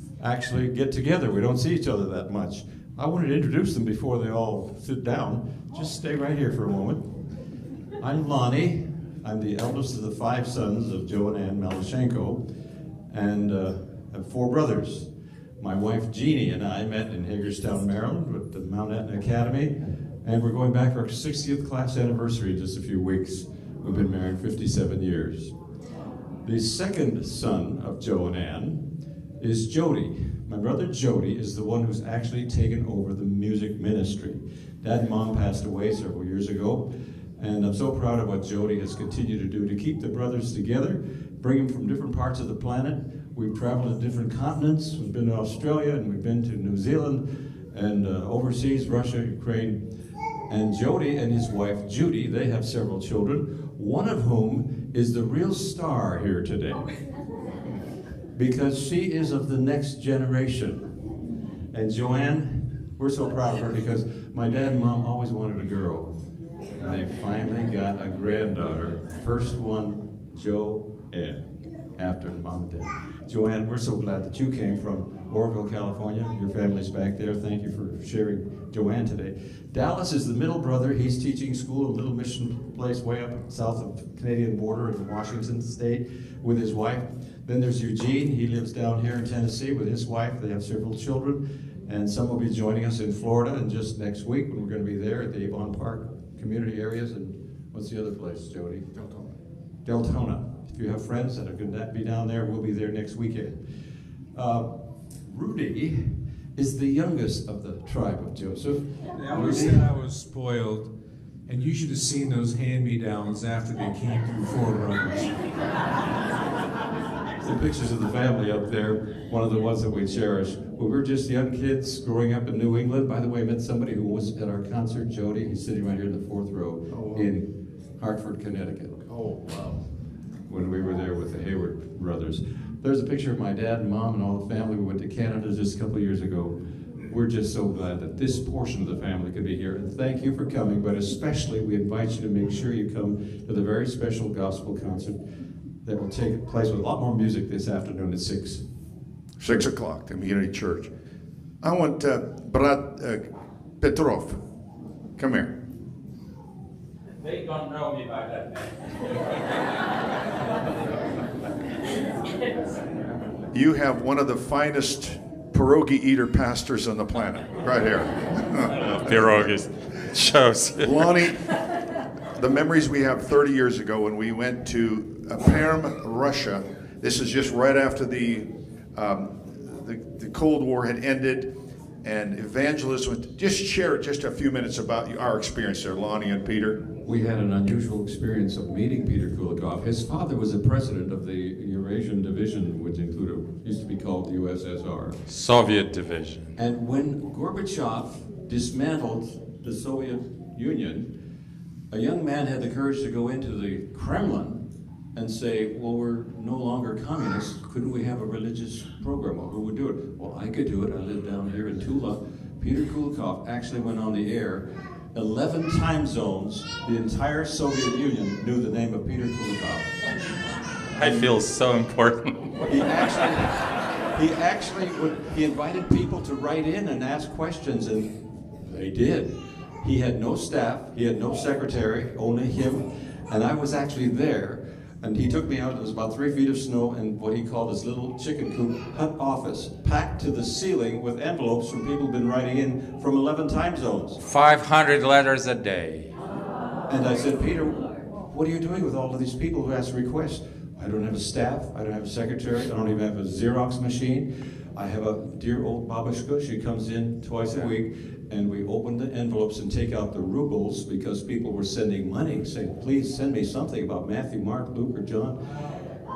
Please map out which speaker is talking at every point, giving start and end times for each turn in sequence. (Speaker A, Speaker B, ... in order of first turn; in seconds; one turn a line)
Speaker A: 0.2-7.3
Speaker A: 8.0-12.4
Speaker A: 13.1-25.5
Speaker A: 26.4-28.9
Speaker A: 29.4-49.9
Speaker A: 50.5-56.8
Speaker A: 58.3-60.9
Speaker A: 61.7-66.2
Speaker A: 66.8-98.9
Speaker A: 99.8-103.7
Speaker A: 104.3-109.9
Speaker B: 109.1-110.9
Speaker B: 111.5-115.5
Speaker A: 117.4-129.2
Speaker B: 126.9-127.4
Speaker B: 129.0-129.9
Speaker A: 130.4-145.2
Speaker A: 145.8-148.7
Speaker C: 149.4-150.9
Speaker C: 151.6-153.2
Speaker C: 153.8-154.4
Speaker C: 155.2-155.5
Speaker D: 157.3-158.4
Speaker C: 163.5-169.5
Speaker D: 168.8-171.0
Speaker C: 170.8-171.4
Speaker C: 172.3-186.8
Speaker A: 187.0-195.2
Speaker D: 195.2-196.5
Speaker A: 196.6-201.1
Speaker A: 201.9-204.6
Speaker A: 205.1-219.9
Speaker D: 220.9-222.5
Speaker A: 221.0-221.3
Speaker A: 222.6-244.2
Speaker D: 244.2-246.1
Speaker A: 246.9-265.4